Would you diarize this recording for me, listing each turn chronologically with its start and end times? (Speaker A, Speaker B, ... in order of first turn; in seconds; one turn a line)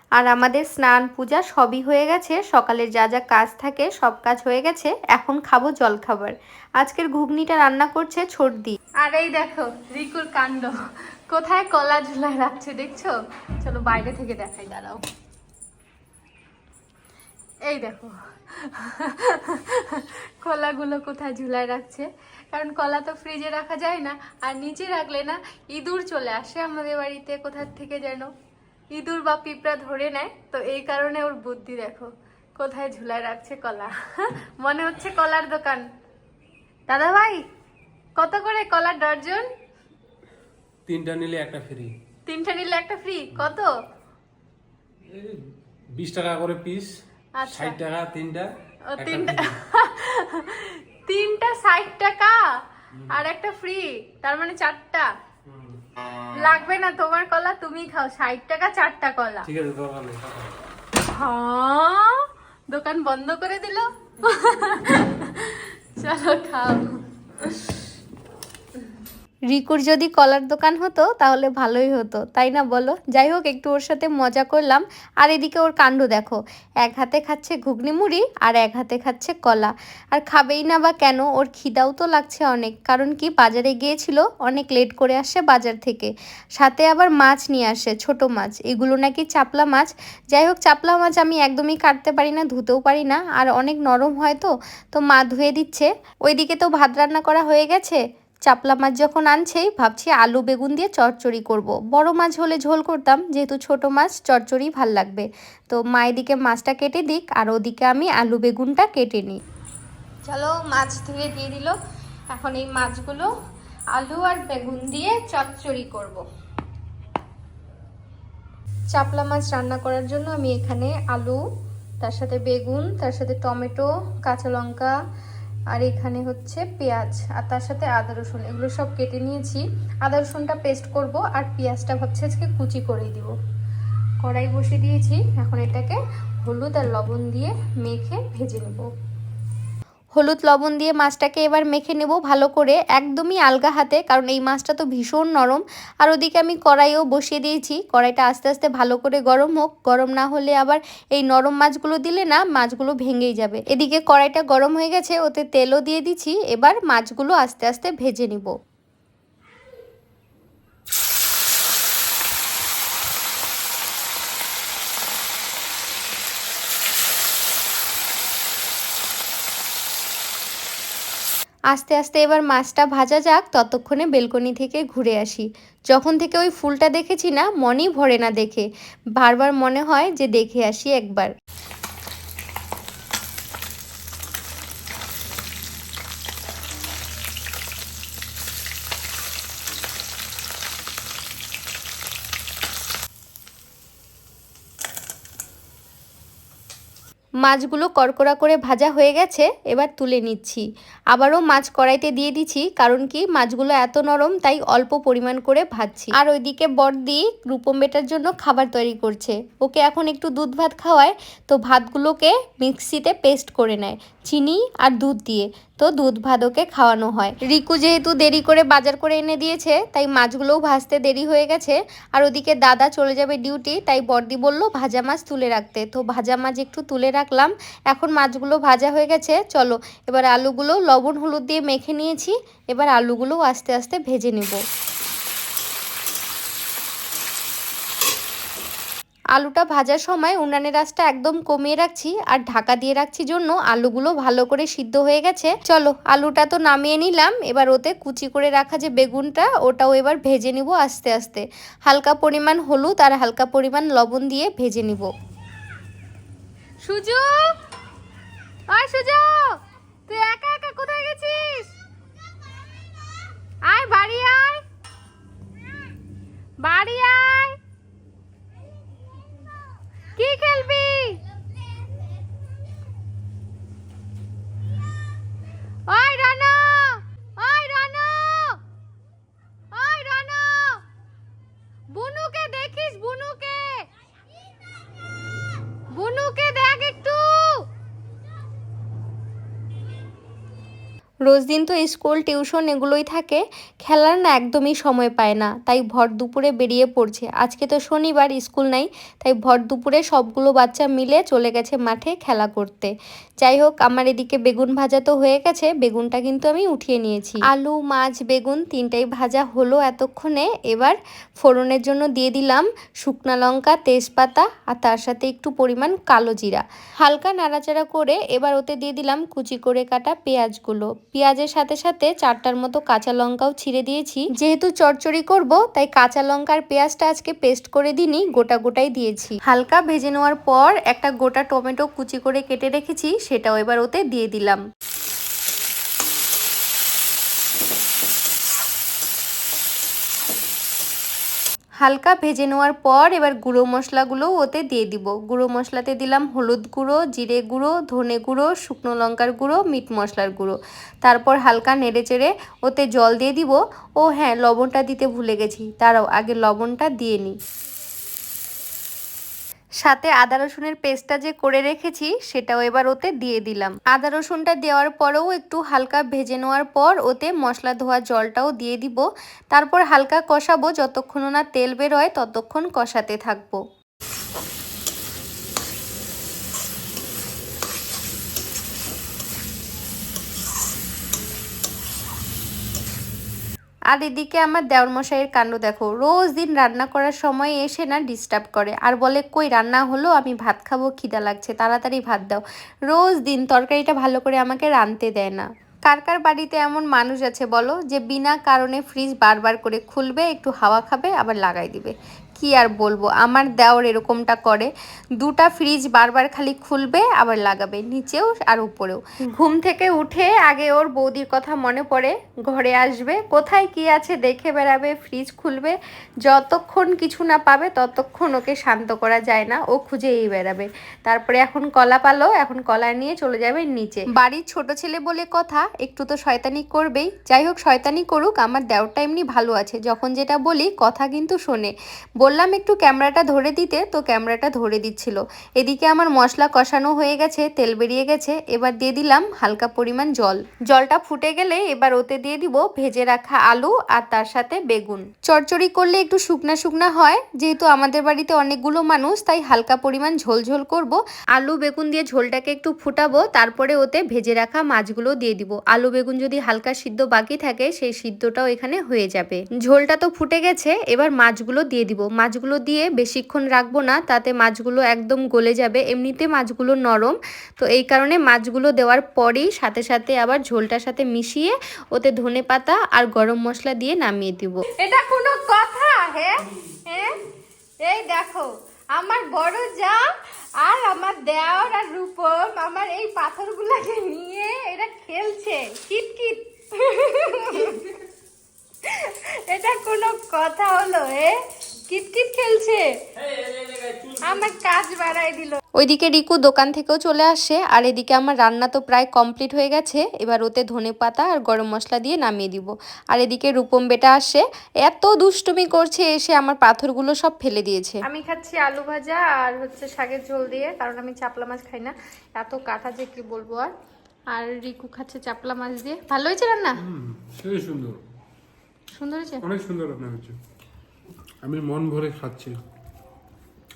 Speaker A: 0.2-8.8
Speaker B: 9.0-10.8
Speaker B: 11.3-15.0
Speaker B: 17.7-28.3
Speaker B: 28.9-35.9
Speaker B: 36.9-37.4
Speaker B: 38.2-39.5
Speaker C: 40.9-41.9
Speaker B: 42.3-43.7
Speaker C: 45.1-45.4
Speaker C: 45.9-46.9
Speaker B: 47.4-47.8
Speaker C: 47.5-49.6
Speaker B: 48.9-52.5
Speaker B: 53.1-55.1
Speaker B: 56.4-59.5
Speaker C: 59.5-60.5
Speaker B: 61.1-67.6
Speaker A: 69.5-109.4
Speaker B: 110.3-111.8
Speaker B: 112.3-113.3
Speaker B: 113.9-116.2
Speaker B: 118.9-121.2
Speaker B: 122.0-123.7
Speaker A: 122.8-123.0
Speaker B: 124.3-124.9
Speaker B: 125.8-126.2
Speaker A: 126.3-126.8
Speaker B: 126.8-133.3
Speaker B: 134.2-138.9
Speaker A: 140.2-158.5
Speaker A: 171.7-178.7
Speaker A: 179.2-181.3
Speaker A: 197.4-234.6
Speaker A: 239.3-255.1
Speaker B: 256.8-257.6
Speaker B: 258.7-259.5
Speaker B: 260.1-261.7
Speaker B: 263.7-264.6
Speaker B: 266.6-267.6
Speaker B: 270.2-271.2
Speaker B: 275.9-278.6
Speaker B: 279.7-280.8
Speaker B: 281.9-283.8
Speaker B: 285.9-287.6
Speaker A: 291.3-302.9
Speaker A: 303.4-334.6
Speaker A: 341.8-357.4
Speaker A: 359.8-373.6
Speaker A: 383.9-474.6
Speaker B: 474.7-477.2
Speaker B: 477.8-487.9
Speaker B: 488.8-493.0
Speaker C: 493.3-494.4
Speaker B: 494.2-495.6
Speaker A: 495.8-508.0
Speaker B: 508.0-513.7
Speaker B: 514.3-516.7
Speaker C: 516.8-518.0
Speaker B: 518.9-519.4
Speaker C: 519.4-520.4
Speaker C: 521.4-522.6